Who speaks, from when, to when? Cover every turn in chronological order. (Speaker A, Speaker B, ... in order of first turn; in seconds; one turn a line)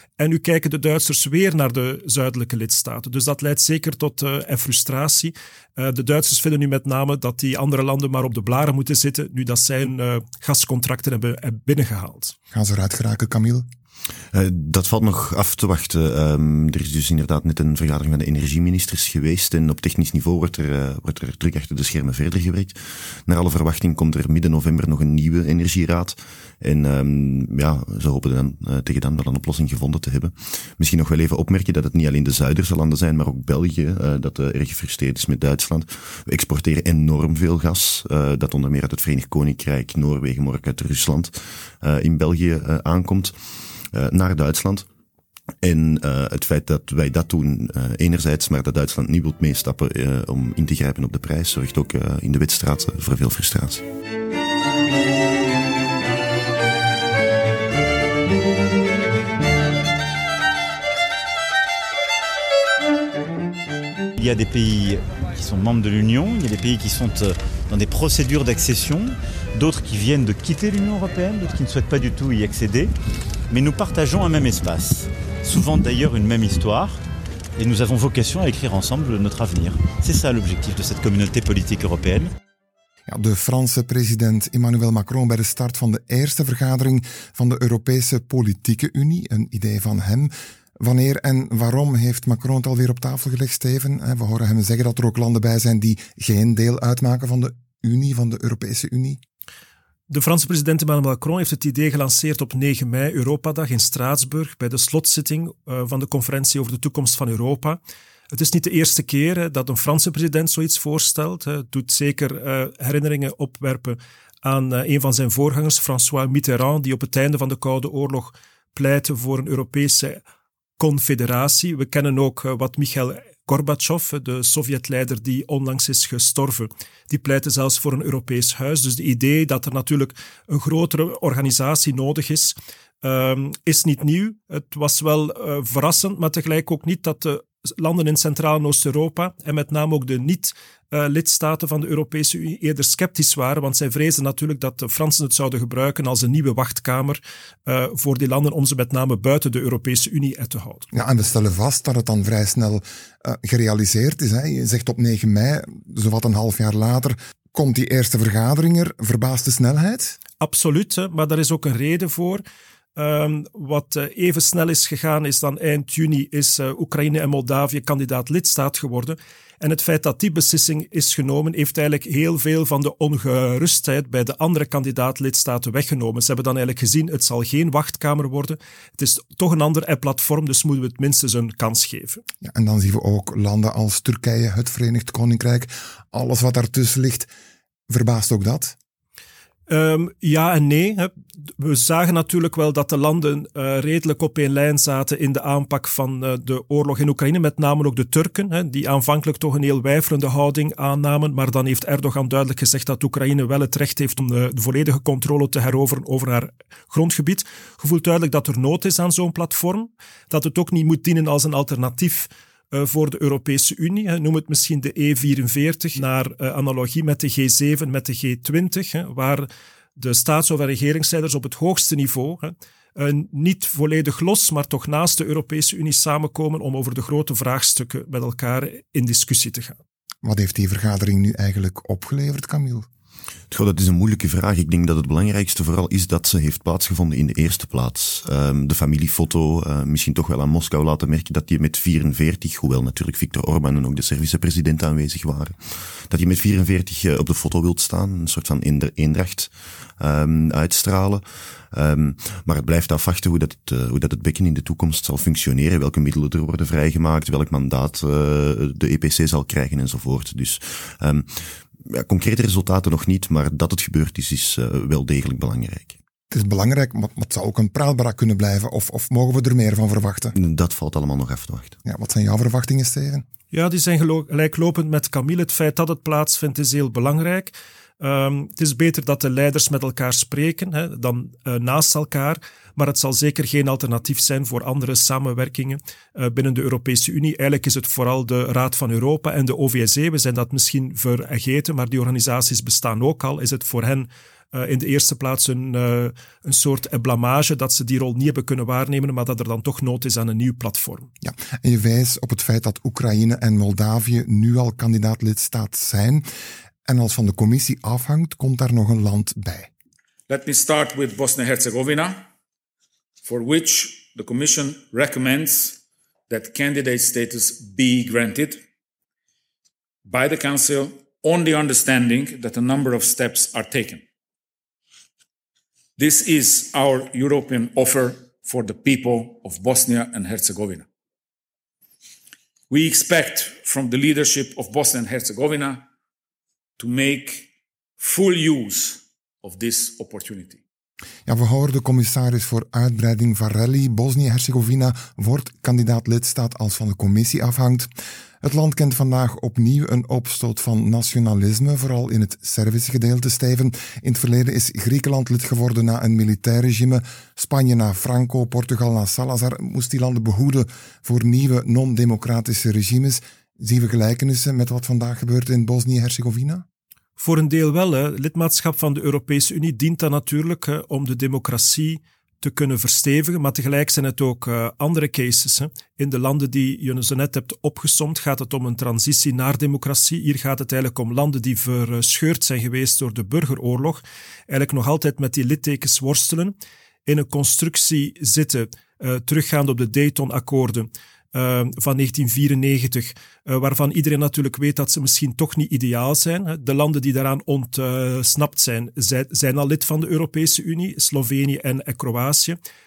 Speaker A: 0.2-12.3
Speaker B: 12.5-13.7
Speaker C: 14.3-43.3
Speaker C: 43.9-44.9
Speaker C: 45.6-53.8
Speaker D: 64.2-72.9
Speaker D: 73.5-77.0
Speaker D: 77.6-82.3
Speaker B: 83.1-99.2
Speaker A: 100.1-107.8
Speaker A: 108.3-120.2
Speaker A: 120.8-150.8
Speaker B: 150.9-160.2
Speaker A: 160.4-162.4
Speaker A: 162.9-182.2
Speaker B: 182.4-187.3
Speaker B: 187.9-188.7
Speaker A: 189.7-229.8
Speaker B: 230.2-232.8
Speaker C: 233.5-266.0
Speaker B: 266.3-270.3
Speaker C: 270.3-271.8
Speaker B: 271.8-273.2
Speaker A: 273.5-301.1
Speaker B: 301.2-306.3
Speaker B: 306.8-309.7
Speaker E: 310.3-312.2
Speaker E: 313.2-318.6
Speaker E: 320.0-324.0
Speaker E: 326.0-330.9
Speaker E: 332.7-335.8
Speaker E: 336.8-340.6
Speaker B: 341.2-347.9
Speaker B: 348.4-366.6
Speaker A: 367.2-386.5
Speaker A: 387.1-402.6